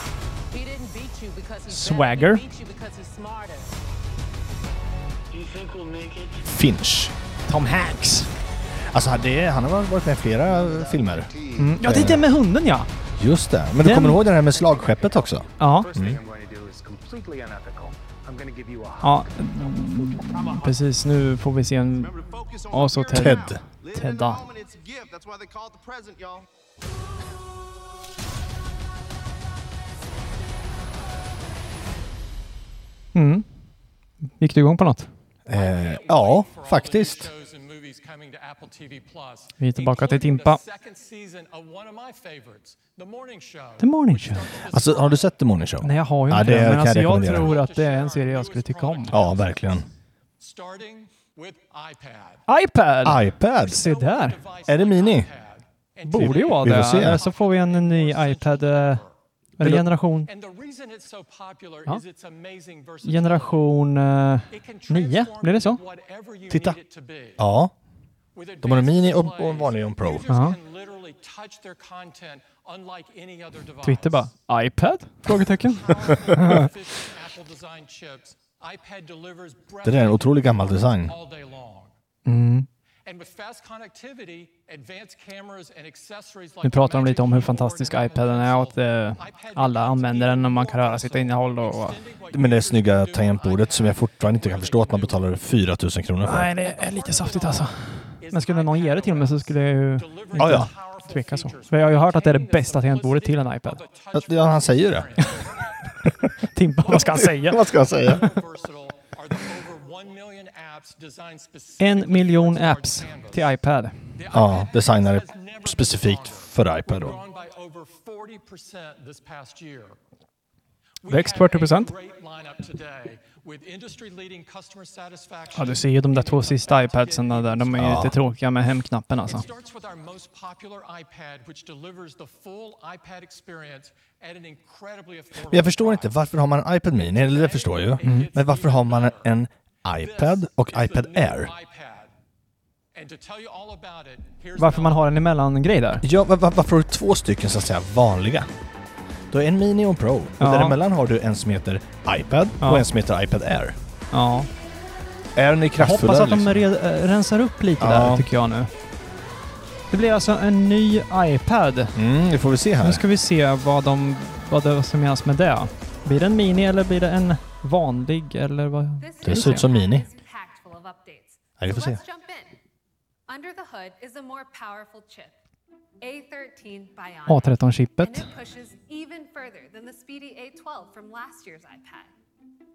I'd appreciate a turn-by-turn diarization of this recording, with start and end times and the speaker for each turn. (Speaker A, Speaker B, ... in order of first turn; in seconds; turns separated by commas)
Speaker A: 0.5-3.8, Speaker B: 1.7-2.4, Speaker A: 5.4-6.2, Speaker C: 6.4-7.1, Speaker B: 7.5-8.3, Speaker C: 8.9-12.3, Speaker D: 10.4-12.2, Speaker B: 11.6-12.9, Speaker C: 13.2-16.2, Speaker B: 13.8-14.2, Speaker D: 14.6-20.8, Speaker B: 15.6-15.9, Speaker B: 19.0-24.4, Speaker D: 21.9-26.4, Speaker C: 23.1-23.6, Speaker B: 33.1-33.5, Speaker B: 34.4-35.1, Speaker C: 35.5-37.3, Speaker E: 35.5-45.2, Speaker B: 39.6-40.6, Speaker B: 43.8-44.5, Speaker C: 44.7-47.5, Speaker B: 45.8-49.1, Speaker E: 47.0-49.8, Speaker C: 49.1-49.9, Speaker E: 50.4-52.4, Speaker B: 52.5-54.4, Speaker C: 53.0-53.8, Speaker E: 53.6-59.1, Speaker C: 54.7-55.3, Speaker B: 56.0-59.0, Speaker C: 56.2-57.2, Speaker B: 59.6-60.3, Speaker E: 60.2-63.7, Speaker B: 63.0-65.8, Speaker E: 64.5-67.4, Speaker C: 66.5-66.8, Speaker C: 67.4-67.7, Speaker E: 68.3-74.4, Speaker C: 68.6-70.2, Speaker B: 70.3-70.6, Speaker B: 73.8-76.7, Speaker E: 75.3-81.9, Speaker C: 79.8-81.1, Speaker B: 82.2-82.7, Speaker E: 83.0-95.4, Speaker B: 86.6-92.0, Speaker C: 92.3-96.5, Speaker B: 96.2-103.8, Speaker E: 96.6-106.1, Speaker C: 100.4-100.7, Speaker C: 104.1-105.2, Speaker B: 106.5-107.7, Speaker E: 106.9-113.6, Speaker C: 107.1-108.3, Speaker B: 111.8-114.0, Speaker E: 114.2-120.0, Speaker C: 114.3-117.2, Speaker E: 121.0-128.1, Speaker B: 121.0-121.9, Speaker B: 125.5-129.4, Speaker C: 127.8-128.1, Speaker E: 129.2-136.2, Speaker C: 135.5-141.5, Speaker E: 136.9-139.4, Speaker B: 138.0-138.3, Speaker E: 139.9-142.1, Speaker E: 142.9-145.2, Speaker B: 144.6-146.0, Speaker C: 146.0-148.5, Speaker C: 149.3-153.8, Speaker B: 150.4-150.8, Speaker B: 152.6-152.8, Speaker B: 154.1-154.5, Speaker C: 155.3-156.6, Speaker B: 155.8-158.7, Speaker C: 157.8-158.3, Speaker B: 159.9-162.0, Speaker C: 161.9-163.0, Speaker B: 162.8-169.7, Speaker F: 169.0-172.6, Speaker C: 169.2-170.1, Speaker C: 171.6-172.0, Speaker F: 173.3-175.3, Speaker F: 176.0-182.1, Speaker B: 177.3-178.3